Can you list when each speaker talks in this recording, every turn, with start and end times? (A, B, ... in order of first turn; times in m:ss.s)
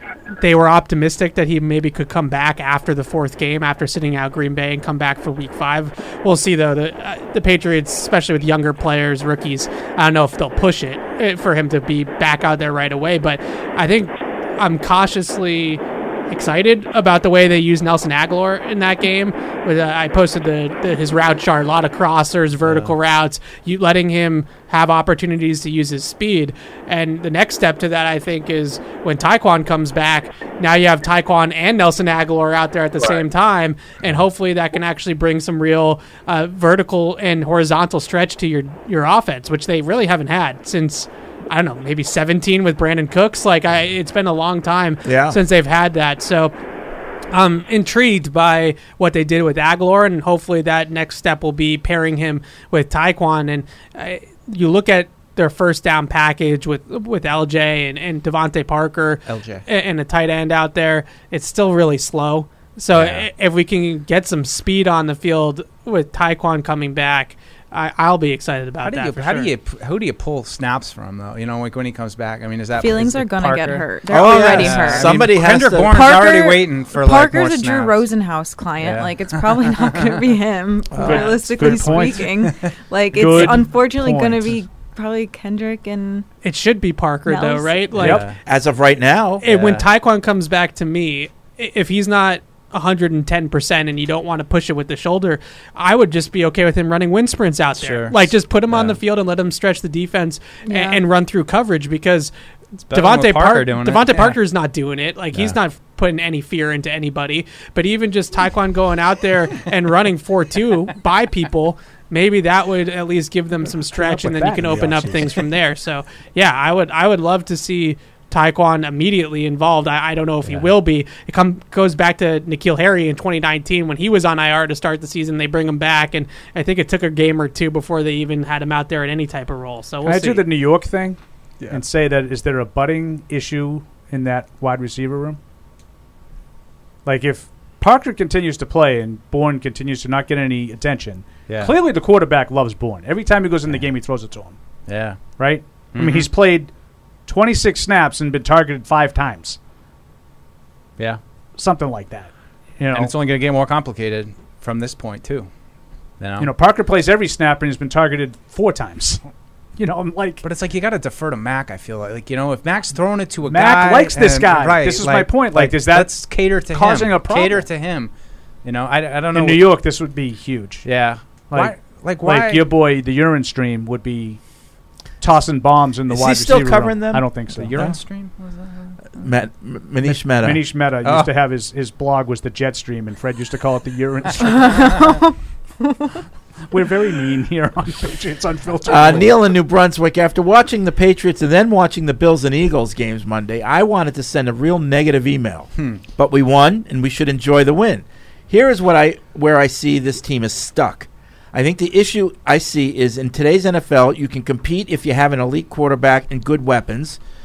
0:00.4-0:46.5 A
0:22.6-0:23.0 B
0:45.0-0:45.4 C
0:47.3-1:09.5 A
0:59.3-0:59.6 B
1:02.9-1:03.3 B
1:08.8-1:18.0 B
1:12.8-1:15.2 D
1:14.1-1:16.2 C
1:15.8-1:26.3 D
1:18.8-1:20.1 B
1:20.9-1:21.3 C
1:21.0-1:22.4 E
1:21.6-1:22.7 B
1:23.1-1:24.5 E
1:23.2-1:23.6 B
1:26.4-1:28.2 A
1:27.3-1:27.9 D
1:27.9-1:28.4 B
1:28.0-1:28.3 E
1:28.2-1:29.5 C
1:29.4-1:42.3 A
1:29.4-1:29.9 B
1:37.7-1:39.0 B
1:40.7-1:41.0 D
1:42.8-2:10.5 A
1:42.9-1:44.4 B
1:45.3-1:45.6 B
1:53.9-1:55.4 E
1:54.7-1:55.0 B
2:00.4-2:00.7 B
2:10.0-2:11.2 E
2:11.7-2:15.4 E
2:17.0-2:24.6 E
2:21.5-2:21.8 B
2:24.9-2:25.2 B
2:25.4-2:26.7 E
2:25.9-2:26.3 B
2:27.3-2:29.6 E
2:31.6-2:33.1 E
2:32.9-2:35.5 B
2:36.2-2:36.5 B
2:36.4-2:39.2 E
2:39.8-2:40.4 E
2:40.4-2:48.1 B
2:43.5-2:47.6 E
2:48.6-2:49.7 B
2:49.3-2:50.9 E
2:50.8-2:52.7 B
2:51.5-2:54.4 E
2:55.2-2:57.8 E
2:56.1-2:58.0 C
2:57.5-2:59.0 B
2:59.2-3:00.6 C
3:00.3-3:05.0 E
3:01.0-3:01.3 B
3:04.6-3:05.3 D
3:06.7-3:09.3 E
3:08.9-3:27.2 C